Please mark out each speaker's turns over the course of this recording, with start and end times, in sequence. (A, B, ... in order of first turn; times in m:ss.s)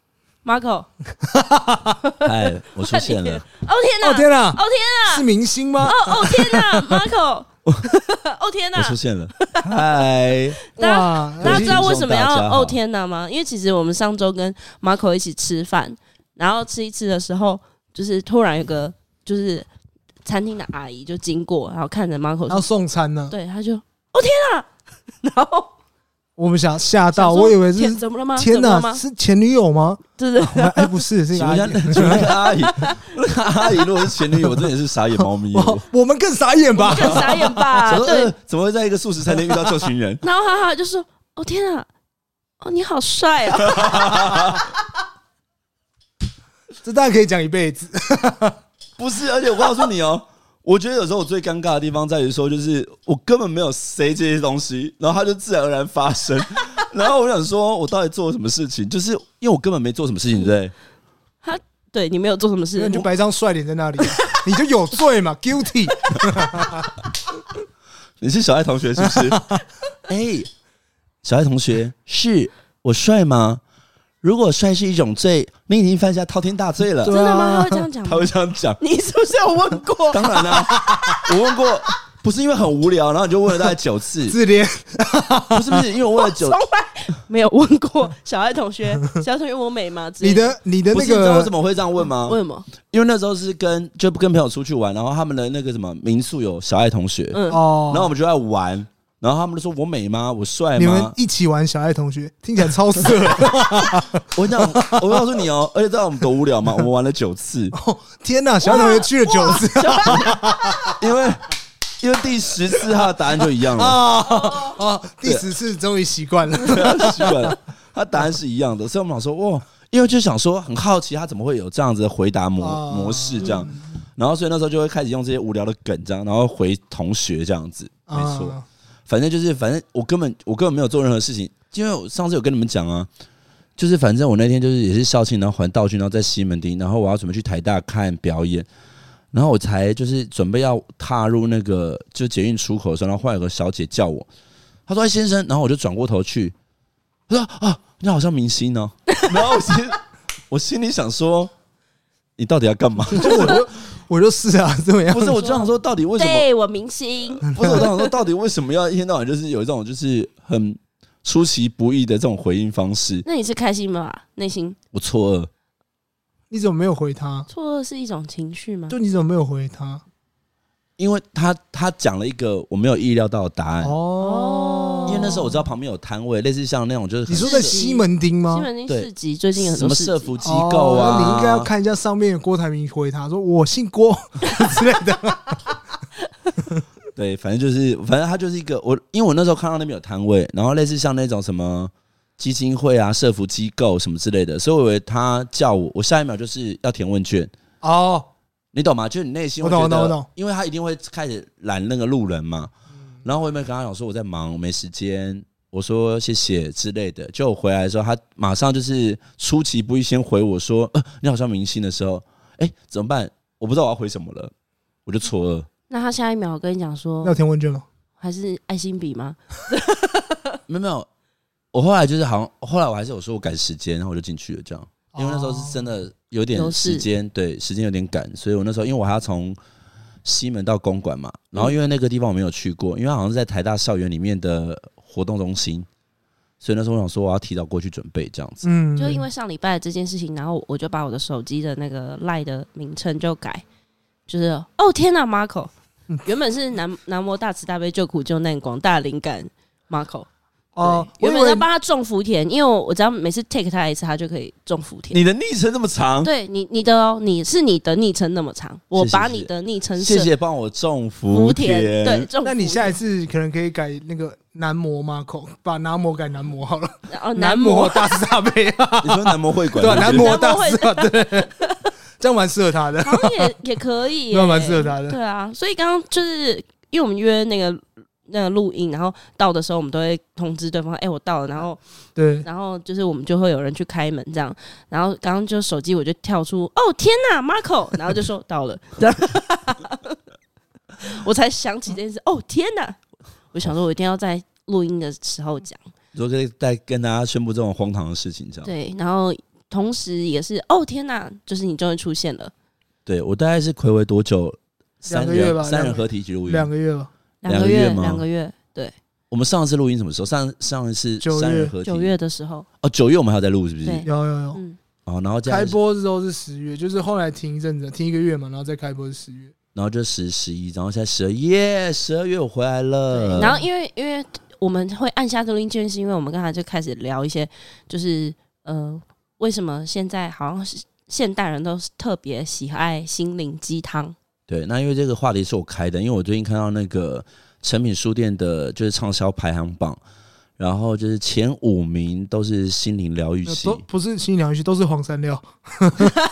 0:00.4-0:00.9 A
0:01.2-0:02.0 B
0:02.2-0:03.4 C
0:02.8-0:05.3 A
0:04.0-0:07.0 B
0:05.8-0:09.8 A
0:08.8-0:10.6 C
0:10.7-0:19.7 A
0:10.8-0:11.9 B
0:11.4-0:12.8 C
0:20.2-0:22.7 A
0:22.5-0:23.4 B
0:23.3-0:25.7 A
0:26.4-0:32.3 B
0:27.1-0:29.0 A
0:30.2-0:31.0 A
0:31.3-0:35.8 C
0:32.0-0:33.0 A
0:35.5-0:37.6 B
0:36.8-0:38.3 A
0:37.8-0:40.2 C
0:39.4-0:39.6 B
0:40.2-0:41.9 A
0:42.6-0:44.6 A
0:43.6-0:44.6 C
0:46.8-0:48.6 B
0:49.0-1:00.8 C
1:01.4-1:03.1 A
1:02.8-1:06.9 B
1:08.2-1:09.4 C
1:09.0-1:09.6 B
1:10.1-1:10.5 C
1:11.2-1:13.6 C
1:14.2-1:17.2 C
1:17.0-1:17.9 B
1:17.0-1:18.3 A
1:18.0-1:18.8 C
1:18.8-1:21.3 A
1:20.1-1:24.4 C
1:24.3-1:25.9 B
1:25.5-1:26.6 C
1:26.2-1:30.6 A
1:30.2-1:31.5 B
1:30.9-1:41.1 C
1:32.2-1:32.7 A
1:37.3-1:37.6 A
1:37.5-1:38.1 B
1:40.8-1:45.2 B
1:44.3-1:47.8 C
1:47.7-1:51.0 B
1:48.6-1:50.9 A
1:49.8-1:51.5 C
1:52.0-1:54.0 C
1:52.8-1:53.0 B
1:53.6-1:57.5 B
1:56.6-2:08.6 C
2:02.6-2:03.9 B
2:08.1-2:08.6 B
2:09.1-2:13.1 C
2:13.8-2:18.7 C
2:19.3-2:24.3 C
2:24.9-2:26.5 C
2:27.3-2:31.5 C
2:29.1-2:29.7 A
2:32.4-2:33.6 C
2:33.1-2:35.5 B
2:35.1-2:36.5 C
2:36.2-2:38.1 A
2:37.4-2:43.2 C
2:37.6-2:37.8 B
2:43.2-2:44.8 A
2:44.9-2:45.5 C
2:46.5-2:47.5 B
2:47.5-2:49.0 A
2:48.9-2:50.0 B
2:51.0-2:54.0 C
2:53.8-2:55.5 B
2:54.2-2:55.4 A
2:55.1-2:57.8 C
2:57.3-2:58.7 B
2:57.4-3:00.4 A
2:58.9-3:01.7 C
3:00.4-3:05.8 B
3:07.2-3:17.5 C
3:17.8-3:18.3 B
3:18.7-3:22.7 C
3:19.6-3:20.3 B
3:23.2-3:34.5 C
3:35.0-3:35.7 C
3:35.9-3:37.4 A
3:37.2-3:37.9 B
3:38.2-3:40.5 A
3:40.7-3:41.1 C
3:41.7-3:49.6 C
3:45.1-3:45.9 B
3:46.5-3:47.0 A
3:50.2-3:55.9 C
3:56.6-3:58.7 C
3:58.6-3:59.2 B
3:59.0-4:03.6 A
4:04.3-4:05.7 A
4:06.2-4:10.3 A
4:10.8-4:11.6 B
4:10.8-4:15.2 A
4:15.1-4:16.3 C
4:16.2-4:20.3 A
4:19.0-4:22.3 C
4:21.3-4:23.0 A
4:22.4-4:31.5 B
4:27.1-4:28.3 A
4:29.0-4:30.4 C
4:29.8-4:31.9 A
4:32.2-4:33.5 B
4:33.0-4:41.8 A
4:34.3-4:35.2 B
4:42.2-4:42.5 B
4:42.4-4:50.2 A
4:51.0-4:53.0 A
4:53.5-4:55.8 A
4:56.1-4:58.7 C
4:58.6-5:02.5 A
5:03.0-5:06.7 C
5:05.1-5:07.1 B
5:07.4-5:09.0 A
5:07.4-5:08.2 C
5:09.3-5:12.1 C
5:11.2-5:11.8 B
5:11.8-5:12.6 A
5:12.8-5:14.1 C
5:13.8-5:14.8 A
5:14.0-5:14.6 B
5:15.0-5:15.8 C
5:15.4-5:19.5 B
5:19.8-5:23.6 C
5:23.1-5:34.1 A
5:34.5-5:40.0 C
5:40.6-5:43.8 C
5:43.4-5:46.1 B